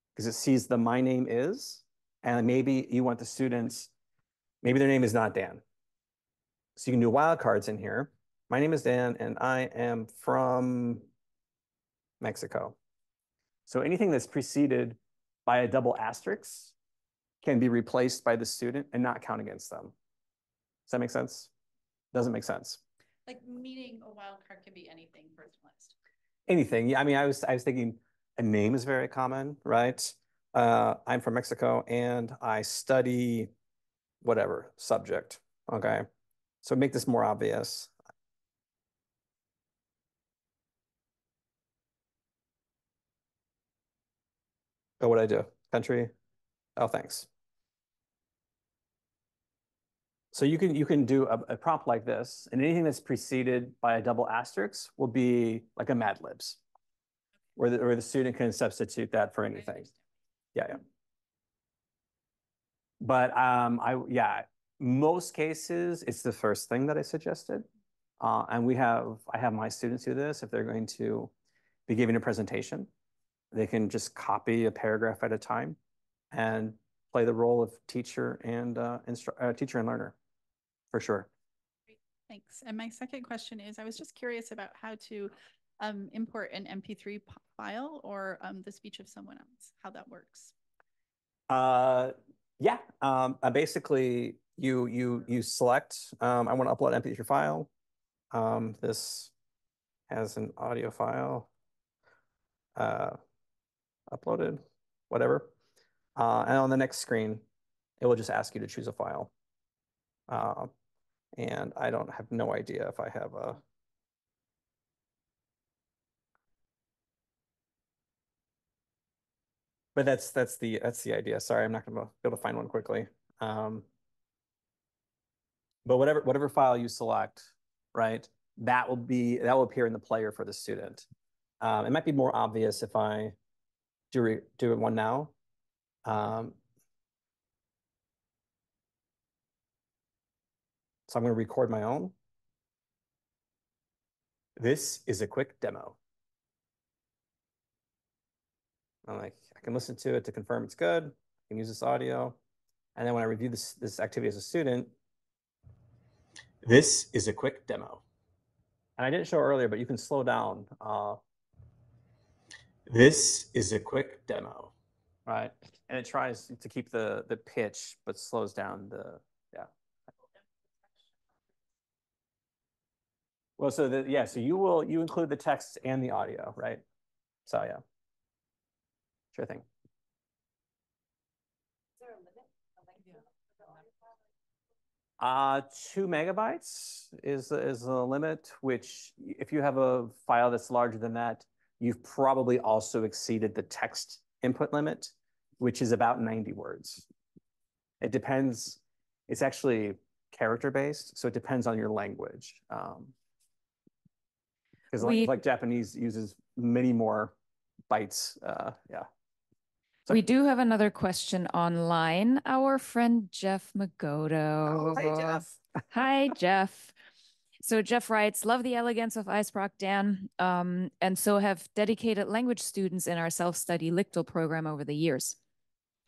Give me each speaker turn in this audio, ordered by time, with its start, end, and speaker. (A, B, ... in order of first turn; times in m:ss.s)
0:00.2-0:03.9 A
0:04.6-0:05.6 A
0:06.8-0:11.1 A
0:12.2-0:12.8 A
0:13.7-0:16.7 A
0:17.4-0:19.9 A
0:20.9-0:21.5 A
0:22.1-0:22.8 A
0:23.3-0:26.0 B
0:26.5-0:33.5 A
0:34.2-0:36.0 A
0:36.6-0:37.9 A
0:45.0-0:46.1 A
0:46.8-0:47.3 A
0:50.3-0:56.6 A
0:57.6-0:59.9 A
1:00.6-1:00.8 A
1:03.0-1:07.7 A
1:08.2-1:11.3 A
1:11.9-1:12.9 A
1:13.5-1:15.8 A
1:16.3-1:20.2 A
1:20.9-1:21.3 A
1:21.9-1:30.5 B
1:31.5-1:37.7 A
1:38.3-1:39.3 A
1:40.1-1:41.5 A
1:42.8-1:43.2 A
1:44.1-1:45.5 A
1:46.2-1:47.4 A
1:48.0-1:49.3 A
1:50.3-1:50.7 A
1:51.4-1:53.6 A
2:00.0-2:03.8 A
2:05.8-2:11.1 A
2:11.6-2:13.4 A
2:14.1-2:15.3 A
2:16.0-2:16.6 A
2:21.1-2:22.1 A
2:24.6-2:26.0 A
2:29.1-2:32.4 A
2:33.0-2:34.9 A
2:36.6-2:38.0 A
2:39.0-2:41.2 A
2:42.9-2:44.7 A
2:45.3-2:49.7 A
2:53.6-2:56.8 A
2:57.5-2:57.8 A
2:59.3-2:59.6 A
3:05.2-3:17.1 A
3:18.0-3:23.1 A
3:24.9-3:27.4 A
3:25.0-3:25.3 C
3:27.9-3:29.1 A
3:30.1-3:36.9 C
3:34.7-3:35.6 A
3:37.6-3:45.4 C